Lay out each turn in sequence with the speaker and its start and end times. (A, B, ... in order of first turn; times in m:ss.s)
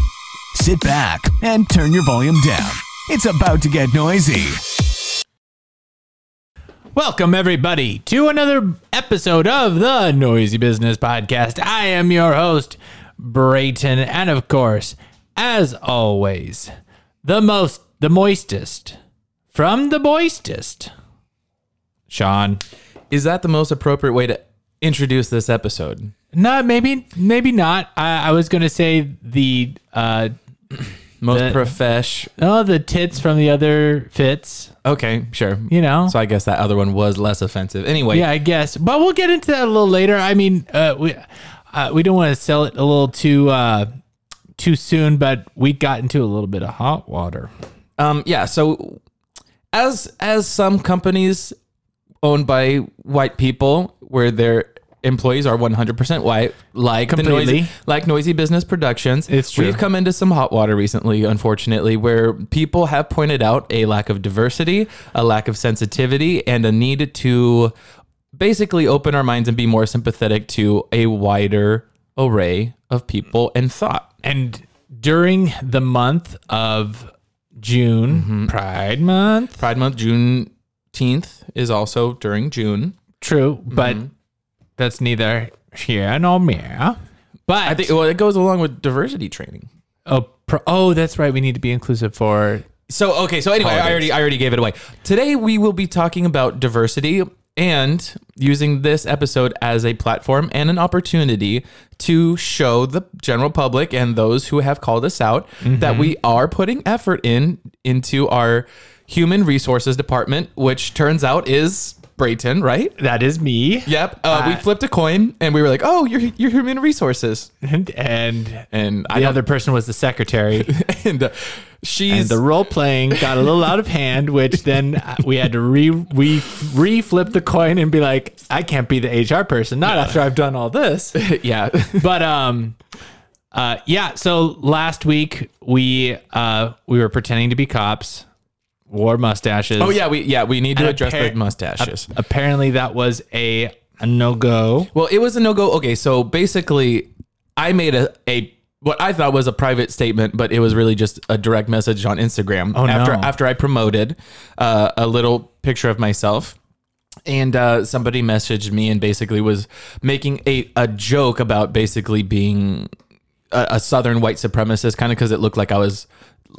0:00.6-0:04.6 A
0:07.0-0:16.7 B
0:17.2-0:19.0 B
0:19.5-0:20.9 B
0:22.1-0:22.6 B
0:23.1-0:26.1 C
0:26.3-0:30.3 B
0:31.2-0:32.3 C
0:31.3-0:31.7 B
0:32.4-0:34.7 B
0:34.8-0:38.3 C
0:35.7-0:36.2 B
0:38.1-0:43.9 B
0:44.6-0:47.5 B
0:48.0-0:49.0 C
0:49.7-0:51.6 C
0:52.2-1:07.7 C
0:57.1-0:57.7 B
0:59.3-0:59.8 B
1:08.3-1:14.1 C
1:14.2-1:19.6 B
1:18.1-1:18.5 C
1:19.6-1:23.0 C
1:23.2-1:24.1 B
1:23.7-1:24.1 C
1:24.8-1:27.9 B
1:27.6-1:29.7 C
1:30.1-1:32.7 B
1:32.9-1:53.0 C
1:33.6-1:34.1 B
1:45.6-1:46.2 B
1:53.0-1:54.6 B
1:53.9-1:57.5 C
1:57.6-2:00.7 B
1:58.7-1:59.4 C
2:00.6-2:02.4 C
2:02.1-2:11.2 B
2:03.1-2:03.5 C
2:11.2-2:12.1 C
2:12.0-2:12.8 B
2:13.5-2:18.3 B
2:18.9-2:20.0 B
2:19.8-2:22.1 C
2:20.8-2:24.9 B
2:24.9-2:36.6 C
2:32.7-2:33.3 B
2:37.3-2:42.9 C
2:43.5-2:46.1 C